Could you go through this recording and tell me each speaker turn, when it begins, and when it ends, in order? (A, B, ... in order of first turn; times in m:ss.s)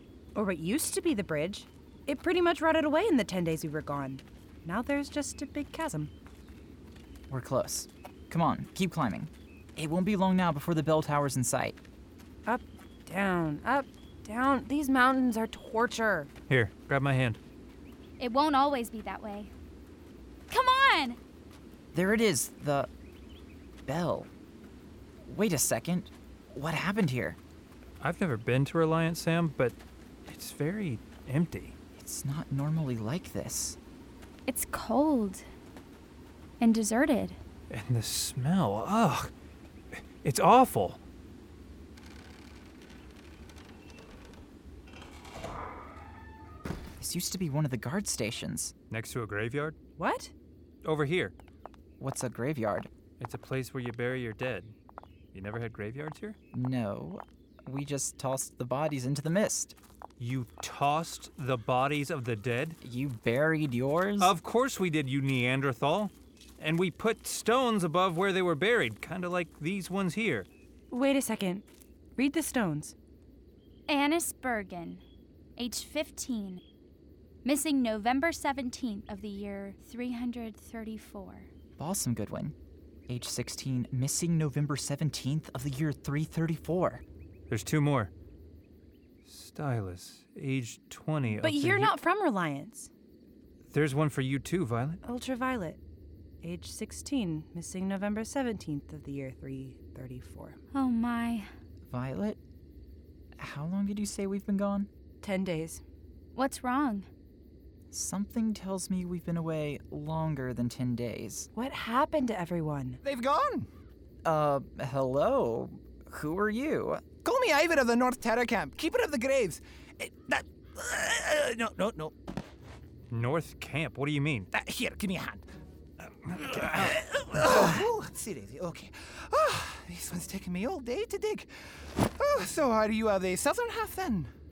0:00.3-0:06.1 A
0:07.3-0:11.8 B
0:12.4-0:16.3 A
0:16.5-0:17.4 C
0:18.2-0:19.5 D
0:20.5-0:21.2 D
0:21.9-0:22.9 B
0:23.8-0:24.3 B
0:25.2-0:27.4 B
0:28.0-0:31.7 C
0:32.0-0:33.8 B
0:34.4-0:35.4 D
0:36.6-0:37.4 D
0:37.7-0:39.3 C
0:40.0-0:41.0 C
0:47.0-0:48.7 B
0:48.9-0:49.7 C
0:50.0-0:50.3 A
0:50.8-0:51.3 C
0:52.0-0:52.9 B
0:53.2-0:54.7 C
0:55.3-0:56.4 C
0:56.5-0:59.8 B
1:00.2-1:02.8 C
1:02.8-1:04.4 B
1:04.2-1:10.5 C
1:10.9-1:11.6 A
1:12.2-1:12.9 A
1:13.9-1:15.0 D
1:15.6-1:16.6 D
1:17.4-1:21.5 D
1:21.8-1:22.5 B
1:23.1-1:27.0 B
1:27.5-1:28.1 C
1:29.2-1:32.0 C
1:31.4-1:32.9 A
1:33.7-1:35.0 C
1:35.0-1:35.8 A
1:36.4-1:40.6 A
1:40.7-1:41.5 D
1:41.9-1:42.4 B
1:43.4-1:44.9 B
1:45.2-1:45.8 A
1:46.3-1:47.1 D
1:47.9-1:51.5 B
1:51.6-1:53.0 A
1:53.0-1:53.7 E
1:54.2-1:57.0 B
1:57.2-2:02.1 E
2:03.1-2:04.5 C
2:04.5-2:05.4 E
2:06.3-2:06.9 C
2:06.3-2:14.3 E